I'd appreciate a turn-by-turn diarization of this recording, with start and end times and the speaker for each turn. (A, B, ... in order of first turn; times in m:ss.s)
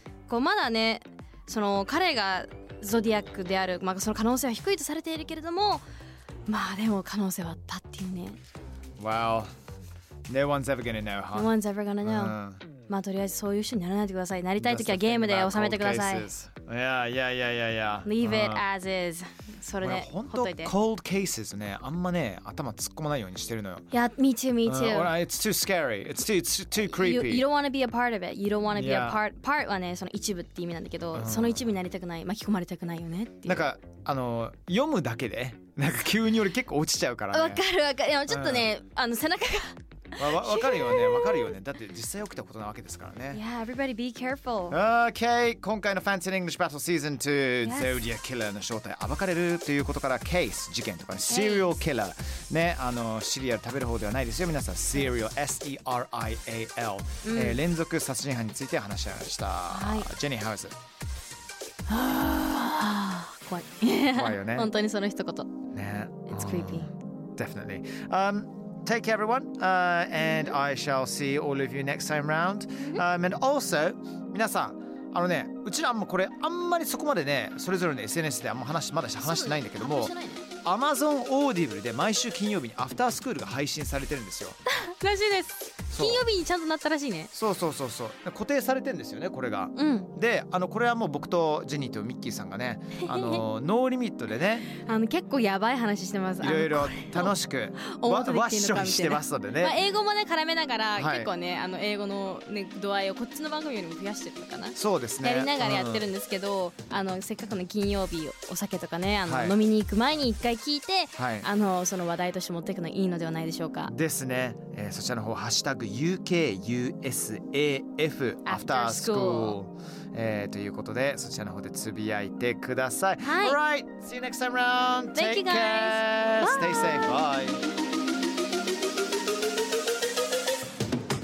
0:00.3-0:05.8 A
0:06.5-0:08.4 A
0:09.0-0:09.5 B
0:10.3-0:11.5 B
0:11.3-0:16.3 A
0:12.0-0:12.6 B
0:14.6-0:18.6 B
0:18.0-0:20.7 A
0:19.8-0:23.9 B
0:23.9-0:25.1 A
0:24.6-0:27.4 B
0:26.8-0:33.7 A
0:28.7-0:29.2 B
0:31.1-0:31.7 B
0:33.4-0:37.6 B
0:37.3-0:41.5 A
0:38.3-0:38.7 B
0:40.2-0:43.4 B
0:43.3-0:44.8 A
0:44.7-1:00.7 B
0:47.6-0:47.9 A
0:51.3-0:51.8 A
0:57.2-0:57.6 A
0:59.7-1:00.1 A
1:01.9-1:05.5 A
1:04.1-1:04.7 B
1:05.7-1:24.6 B
1:06.3-1:06.9 A
1:10.2-1:10.5 A
1:12.8-1:13.0 A
1:19.2-1:20.5 A
1:24.7-1:27.3 A
1:25.9-1:26.2 B
1:27.3-1:34.7 B
1:29.7-1:30.1 A
1:32.9-1:33.4 A
1:34.7-1:53.9 A
1:36.4-1:39.8 B
1:40.9-1:41.3 B
1:44.7-1:46.1 B
1:49.2-1:49.6 B
1:51.2-1:51.5 B
1:53.8-2:07.6 B
1:58.4-1:59.6 A
2:03.2-2:03.6 A
2:05.1-2:07.2 A